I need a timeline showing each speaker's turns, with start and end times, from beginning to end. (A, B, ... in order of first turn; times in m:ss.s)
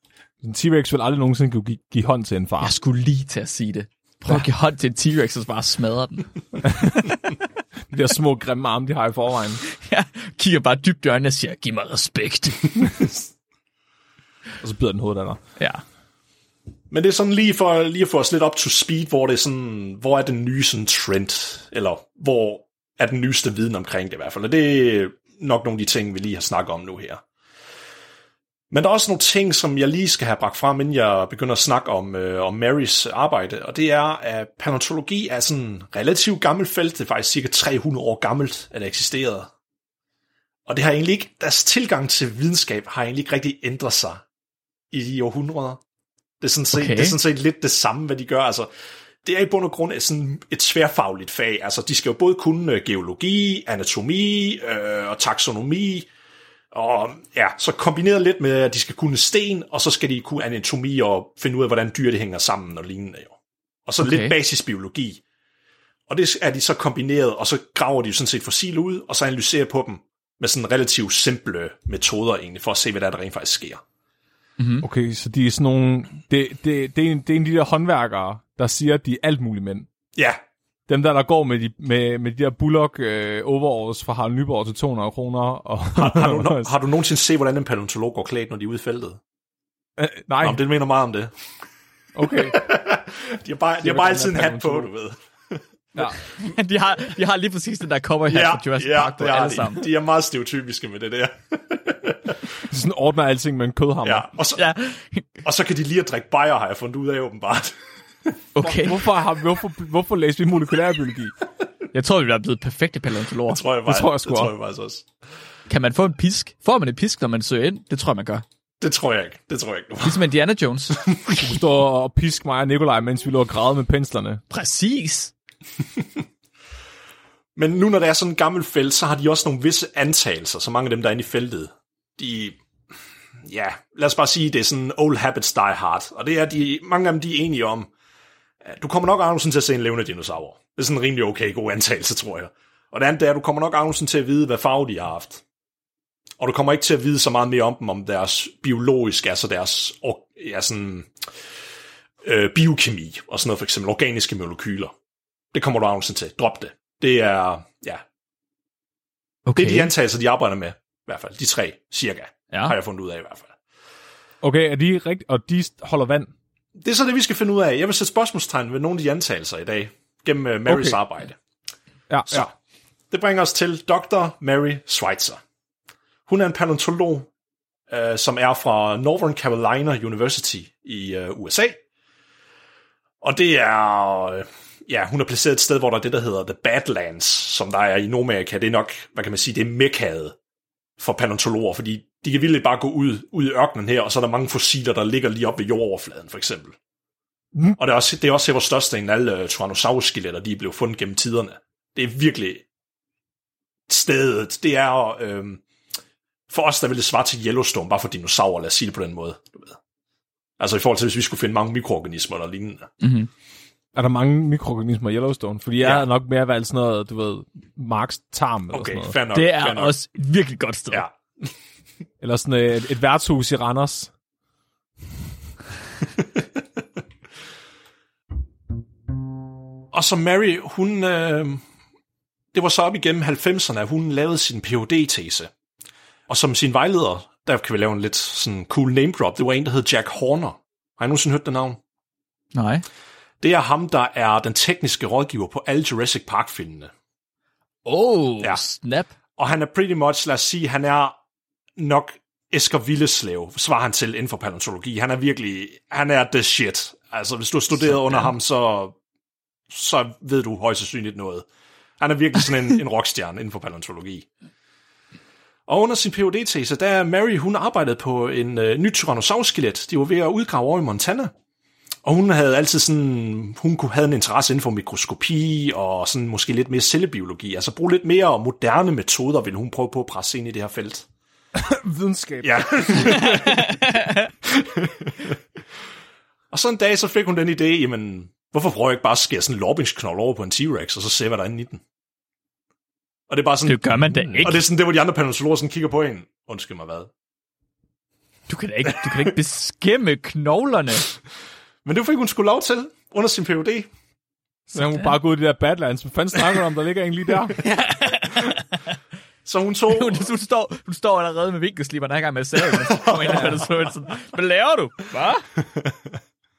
0:00.4-0:02.7 A
0:02.6-0:06.4 B
0:07.9-0:09.6 A
0:09.7-0:12.9 B
0:14.6-0:15.4 A
0:16.9-0:27.2 C
0:28.7-0:39.5 C
0:40.7-0:44.2 C
0:44.9-0:45.8 C
0:46.4-0:48.7 C
0:46.7-0:47.2 B
0:49.2-0:56.1 C
0:56.7-1:03.3 C
1:03.9-1:05.2 C
1:04.0-1:04.4 B
1:06.1-1:13.8 C
1:14.6-1:14.9 B
1:14.8-1:19.9 A
1:20.2-1:20.4 C
1:20.9-1:26.7 A
1:26.0-1:29.2 C
1:30.0-1:30.6 A
1:30.4-1:31.3 C
1:32.2-1:32.6 A
1:32.5-1:35.6 C
1:33.8-1:34.9 A
1:36.4-1:39.8 B
1:38.3-1:42.4 C
1:42.6-1:44.3 A
1:44.0-1:44.6 C
1:44.6-1:45.4 B
1:45.4-1:47.8 C
1:48.6-1:49.0 B
1:48.6-1:51.4 A
1:51.9-1:53.6 B
1:53.5-1:55.1 C
1:53.9-1:54.5 A
1:55.7-1:58.4 B
1:58.8-2:00.2 C
2:00.0-2:01.0 B
2:00.9-2:01.6 C
2:01.4-2:04.4 A
2:04.5-2:05.3 B
2:07.6-2:12.6 C
2:13.5-2:17.9 C
2:18.6-2:25.4 C
2:26.4-2:31.2 C
2:32.2-2:34.9 C
2:35.5-2:38.0 C
2:39.5-2:39.9 B
2:39.6-2:43.5 C
2:44.4-2:46.3 A
2:46.8-2:51.4 C
2:50.7-2:51.0 A
2:52.1-2:52.5 A
2:52.3-2:52.6 C
2:53.1-2:55.4 C
2:56.3-2:57.3 C
2:57.9-3:01.8 C
3:03.2-3:10.4 C
3:11.0-3:16.8 C
3:17.8-3:22.6 C
3:23.9-3:25.6 C
3:26.5-3:29.8 C
3:30.6-3:32.9 C
3:33.0-3:33.3 B
3:34.0-3:39.2 A
3:35.8-3:36.1 C
3:38.7-3:39.9 C
3:39.3-3:41.0 B
3:40.9-3:41.5 C
3:42.2-3:44.1 A
3:49.9-3:51.6 C
3:52.5-3:55.5 C
3:56.3-4:01.8 C
4:02.5-4:02.8 B
4:03.4-4:06.9 C
4:07.8-4:09.1 B
4:09.4-4:11.2 C
4:11.8-4:19.0 C
4:17.9-4:18.3 B
4:19.7-4:21.4 C
4:22.0-4:24.3 C
4:25.7-4:31.3 C
4:32.1-4:41.1 C
4:41.6-4:43.4 A
4:42.4-4:43.8 C
4:43.4-4:44.3 B
4:44.4-4:45.4 C
4:46.5-4:51.8 C
4:53.3-4:53.8 C
4:53.6-4:54.6 B
4:54.1-4:54.5 A
4:54.4-4:57.1 C
4:58.5-5:01.1 B
5:01.8-5:03.9 C
5:04.7-5:07.6 A
5:04.8-5:05.1 B
5:07.6-5:08.8 B
5:09.4-5:10.3 C
5:09.9-5:15.5 B
5:12.7-5:13.9 C